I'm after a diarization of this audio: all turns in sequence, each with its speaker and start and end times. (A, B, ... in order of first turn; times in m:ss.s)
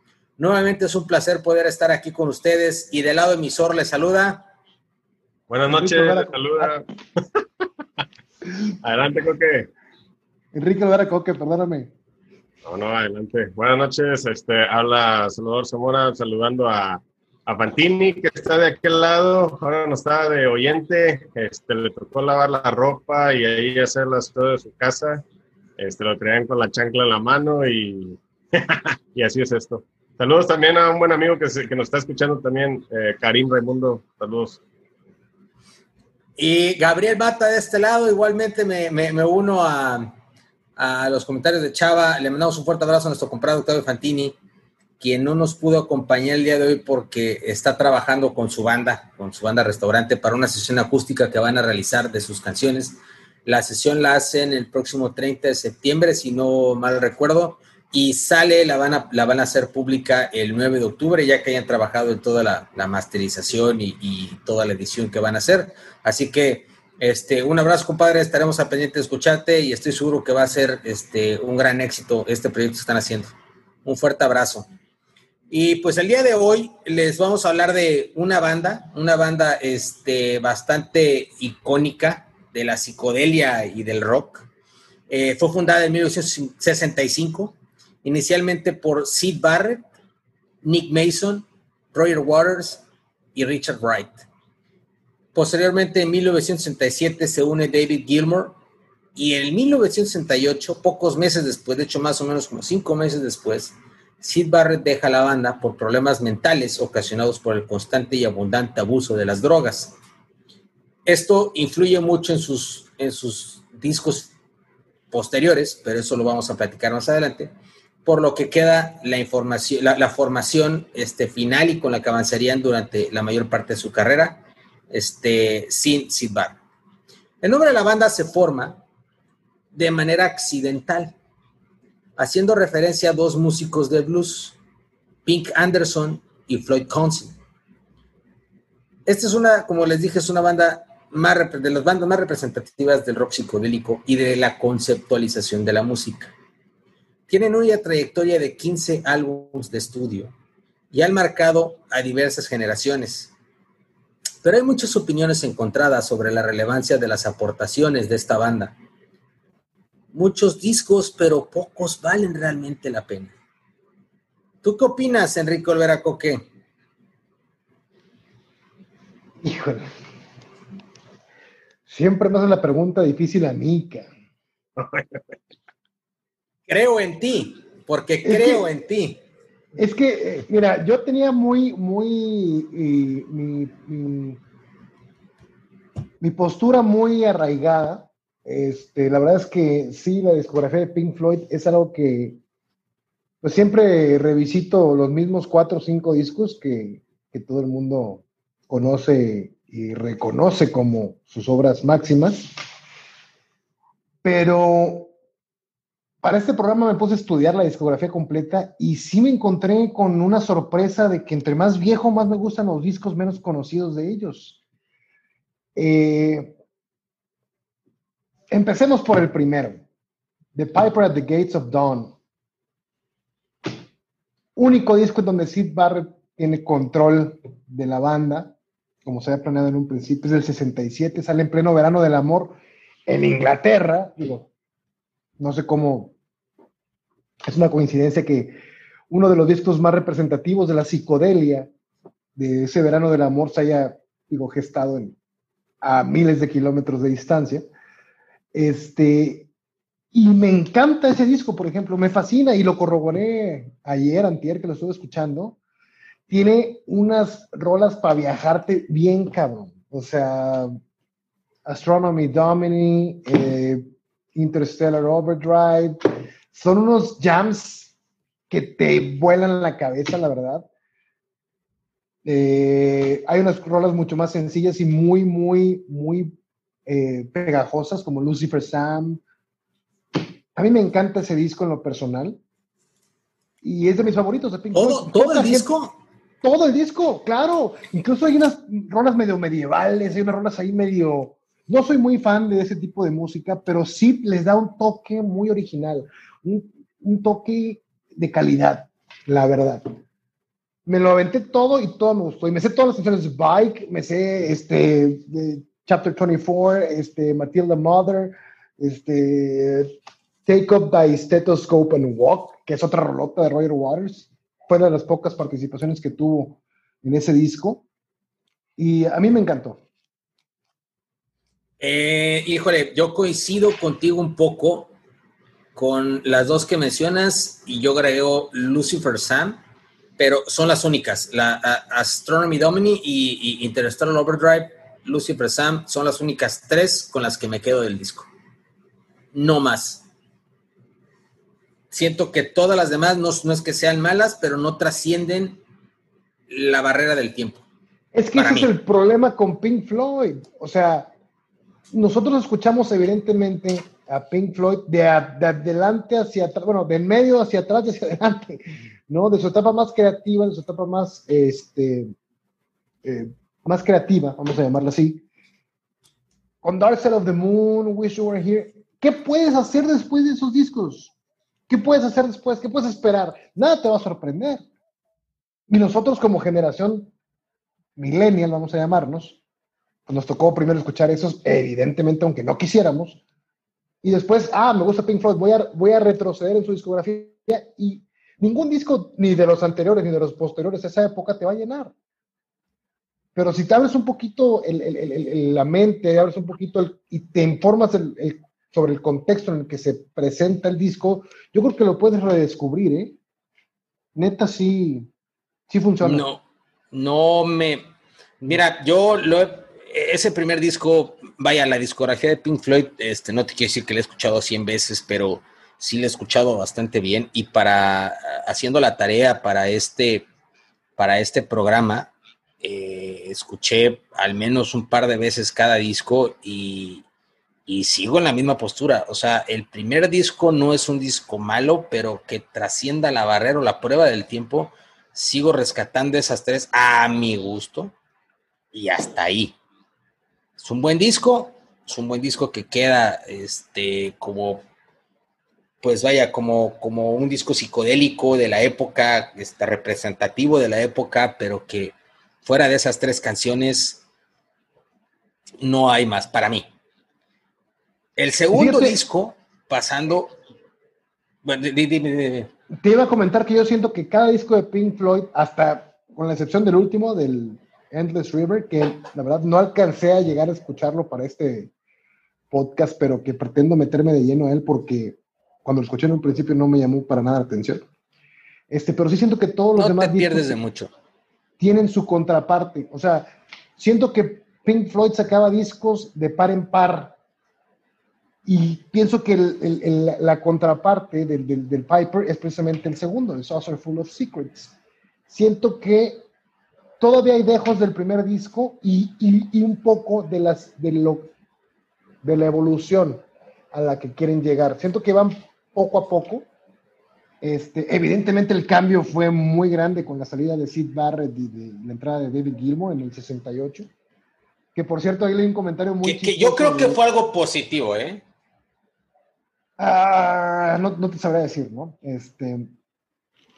0:00.4-0:04.5 A
0:05.5-0:06.8 B
0:05.7-0:06.7 C
0:08.8-0:09.7 B
0:10.5-0:11.9 C
0:12.6-0:25.2 B
0:25.8-0:34.6 B
0:36.4-0:40.2 A
0:40.8-0:44.3 A
0:45.0-1:13.3 A
1:13.8-1:14.7 A
1:15.5-1:24.5 A
1:25.1-1:29.9 A
1:30.6-1:32.8 A
1:33.3-1:34.3 A
1:35.3-1:38.6 A
1:39.1-1:50.0 A
1:51.0-1:54.3 A
1:55.1-1:57.5 A
1:58.0-2:06.6 A
2:07.4-2:08.8 A
2:09.7-2:11.1 A
2:12.2-2:14.6 A
2:15.2-2:17.4 A
2:19.0-2:26.3 A
2:27.3-2:30.3 A
2:30.9-2:33.3 A
2:34.4-2:38.8 A
2:40.1-2:43.3 A
2:44.6-2:46.4 A
2:49.4-2:49.8 C
2:51.9-2:54.1 C
2:56.7-2:59.2 A
2:58.2-2:58.7 C
2:59.7-3:04.4 C
3:06.2-3:12.4 C
3:13.4-3:22.5 C
3:24.2-3:25.1 C
3:26.2-3:34.6 C
3:35.8-3:36.5 C
3:38.5-3:39.8 C
3:40.5-3:42.2 C
3:44.6-3:54.5 C
3:55.4-3:56.1 C
3:57.4-3:58.6 C
3:59.1-4:01.7 C
4:02.4-4:05.2 C
4:05.8-4:07.7 C
4:08.5-4:09.5 C
4:10.1-4:15.6 C
4:16.3-4:20.8 C
4:21.6-4:26.0 C
4:26.5-4:27.9 C
4:28.5-4:30.7 C
4:32.2-4:36.3 C
4:36.8-4:39.2 C
4:40.5-4:42.4 C
4:43.6-4:45.7 C
4:44.7-4:46.0 A
4:46.4-4:59.8 C
5:00.8-5:17.8 C
5:18.8-5:19.8 C
5:21.8-5:24.9 A
5:25.7-5:29.6 A
5:30.2-5:38.3 A
5:39.3-5:40.0 A
5:41.9-5:45.6 A
5:46.5-5:47.6 A
5:48.1-5:51.1 C
5:48.3-5:48.7 A
5:51.9-6:02.1 C
6:03.0-6:05.2 C
6:06.6-6:11.1 C
6:11.7-6:14.6 C
6:15.7-6:17.1 C
6:18.0-6:19.4 C
6:20.1-6:23.2 C
6:24.0-6:31.9 C
6:33.3-6:43.2 C
6:44.1-6:45.1 C
6:45.7-6:46.2 C
6:46.0-6:47.9 A
6:48.4-7:00.2 A
7:01.0-7:07.0 A
7:07.7-7:17.9 A
7:18.7-7:19.6 A
7:20.6-7:24.6 A
7:25.8-7:34.0 A
7:35.6-7:36.7 A
7:38.2-7:40.4 A
7:38.5-7:39.0 C
7:41.4-7:42.5 A
7:42.8-7:51.7 C
7:52.5-7:57.8 C
7:58.7-8:00.6 C
7:59.8-8:00.9 A
8:01.6-8:07.2 C
8:08.4-8:14.7 C
8:15.3-8:16.2 C
8:17.0-8:21.3 C
8:22.2-8:26.5 C
8:27.4-8:33.9 C
8:34.7-8:37.0 C
8:36.0-8:38.2 A
8:39.8-8:42.7 C